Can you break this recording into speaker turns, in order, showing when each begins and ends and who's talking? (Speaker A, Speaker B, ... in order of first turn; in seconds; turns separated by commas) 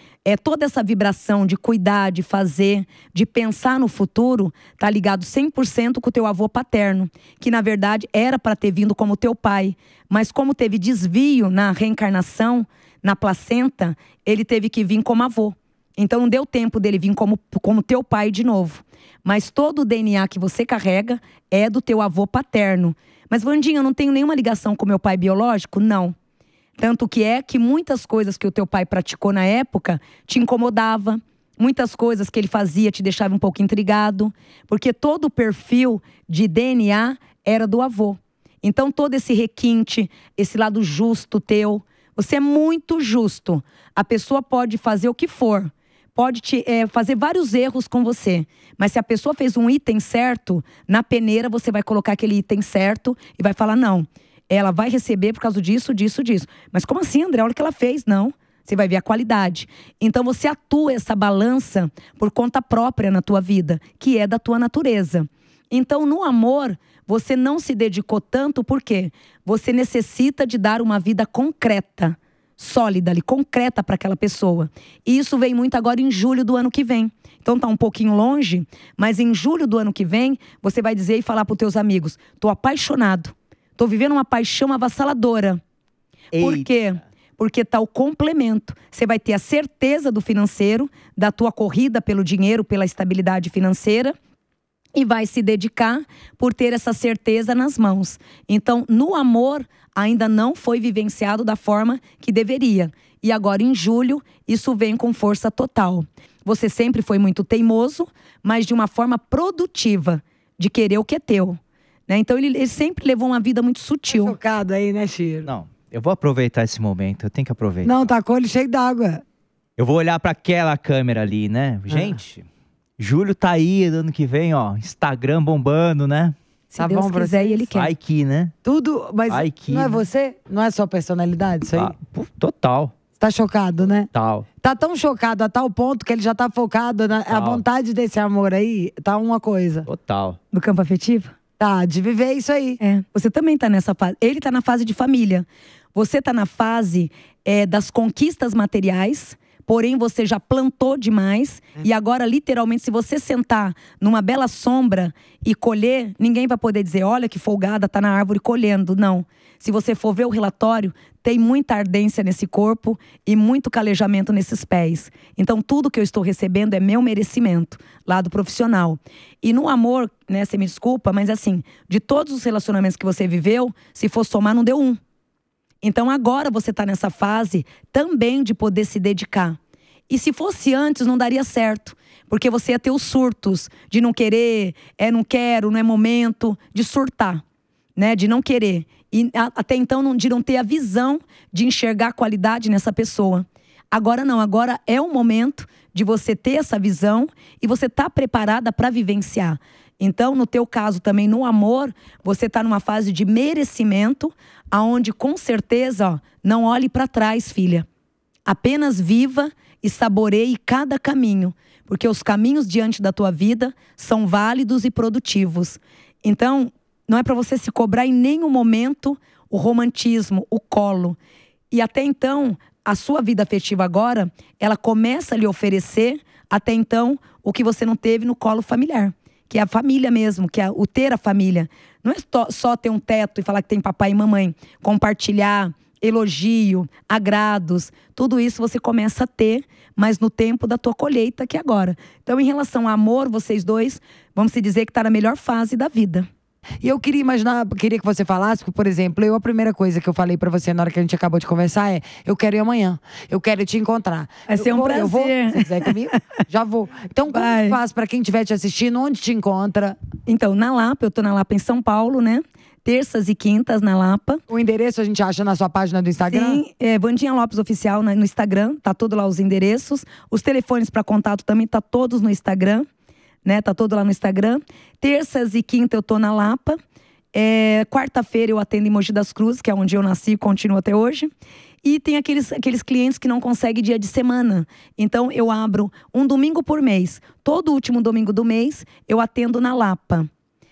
Speaker A: 0.2-26.1, Speaker A: 26.8-85.6, Speaker B: 86.3-86.7, Speaker A: 86.3-94.1, Speaker A: 94.9-114.3, Speaker C: 114.1-115.5, Speaker B: 115.5-117.9, Speaker C: 117.8-119.2, Speaker B: 119.8-122.5, Speaker C: 121.9-122.2, Speaker B: 123.0-126.3, Speaker A: 126.7-127.9, Speaker C: 126.8-127.7, Speaker B: 127.7-128.5, Speaker C: 128.6-131.9, Speaker B: 129.3-130.0, Speaker B: 131.7-132.9, Speaker C: 133.2-134.1, Speaker B: 134.1-134.5, Speaker C: 134.6-139.9, Speaker B: 137.3-137.6, Speaker B: 139.9-140.4, Speaker A: 140.5-141.3, Speaker C: 141.6-142.8, Speaker A: 142.8-175.0, Speaker A: 175.8-179.6, Speaker A: 180.1-187.4, Speaker A: 187.9-207.8, Speaker A: 208.4-221.2, Speaker A: 221.7-246.3, Speaker C: 246.8-260.0, Speaker A: 254.5-255.9, Speaker A: 257.3-257.8, Speaker A: 260.2-264.4, Speaker C: 264.5-266.6, Speaker A: 266.3-272.9, Speaker A: 273.4-276.8, Speaker A: 277.3-281.3, Speaker A: 281.8-290.3